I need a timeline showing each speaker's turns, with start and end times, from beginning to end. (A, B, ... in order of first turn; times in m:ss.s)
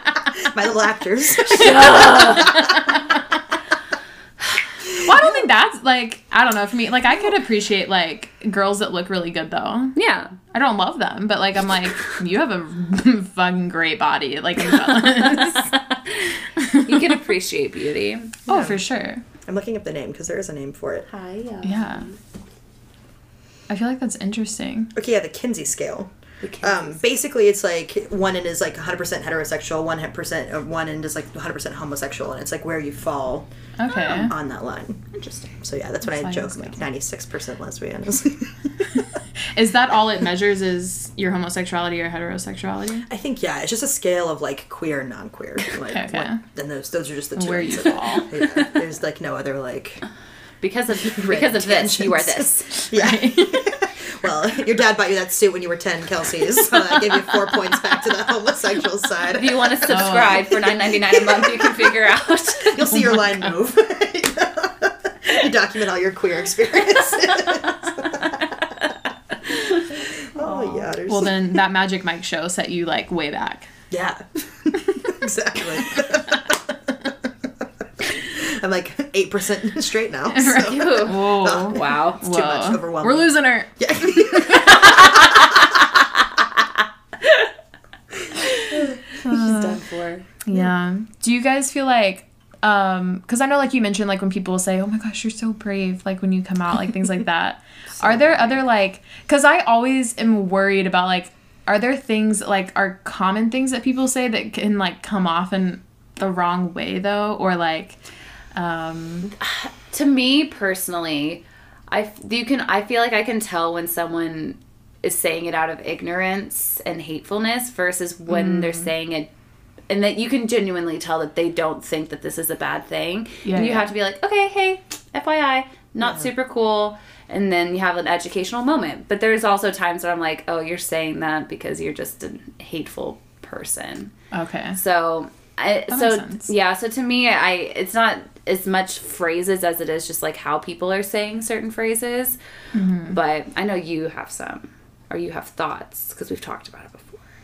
0:00.3-0:02.8 A
0:01.5-0:02.9 B
0:02.3-0:03.1 C
0:05.0-0:10.0 C
0:10.0-0:10.3 B
0:10.5-0:15.7 C
0:15.0-0:18.4 B
0:16.6-0:17.2 C
0:18.5-0:19.2 C
0:18.5-0:18.8 A
0:19.4-0:21.1 A
0:21.1-0:22.1 B
0:21.6-0:22.1 C
0:23.7-0:24.9 C
0:24.9-0:33.5 A
0:26.4-0:27.0 B
0:33.8-0:34.3 C
0:34.0-0:39.0 A
0:35.1-0:35.6 B
0:36.0-0:36.8 C
0:39.5-0:43.1 C
0:43.1-0:50.0 A
0:45.8-0:46.4 C
0:47.4-0:48.3 C
0:50.6-0:52.7 B
0:51.1-1:02.0 A
0:52.9-0:53.7 C
0:59.3-1:02.9 B
0:59.9-1:00.5 C
1:02.6-1:08.4 A
1:08.2-1:08.9 B
1:09.5-1:09.9 B
1:09.9-1:11.5 A
1:10.4-1:10.9 B
1:11.0-1:13.7 C
1:13.9-1:16.7 A
1:18.0-1:25.7 A
1:20.3-1:24.9 C
1:20.5-1:22.2 B
1:24.5-1:25.9 B
1:27.2-1:27.5 B
1:28.6-1:30.2 B
1:29.2-1:29.7 C
1:30.4-1:48.0 C
1:38.0-1:38.4 A
1:48.5-1:49.3 C
1:49.4-1:59.3 B
1:58.3-1:58.9 C
1:59.9-2:14.1 B
2:03.4-2:03.9 C
2:14.3-2:14.8 C
2:14.8-2:22.4 B
2:15.9-2:16.5 C
2:22.7-2:23.2 C
2:23.1-2:27.3 B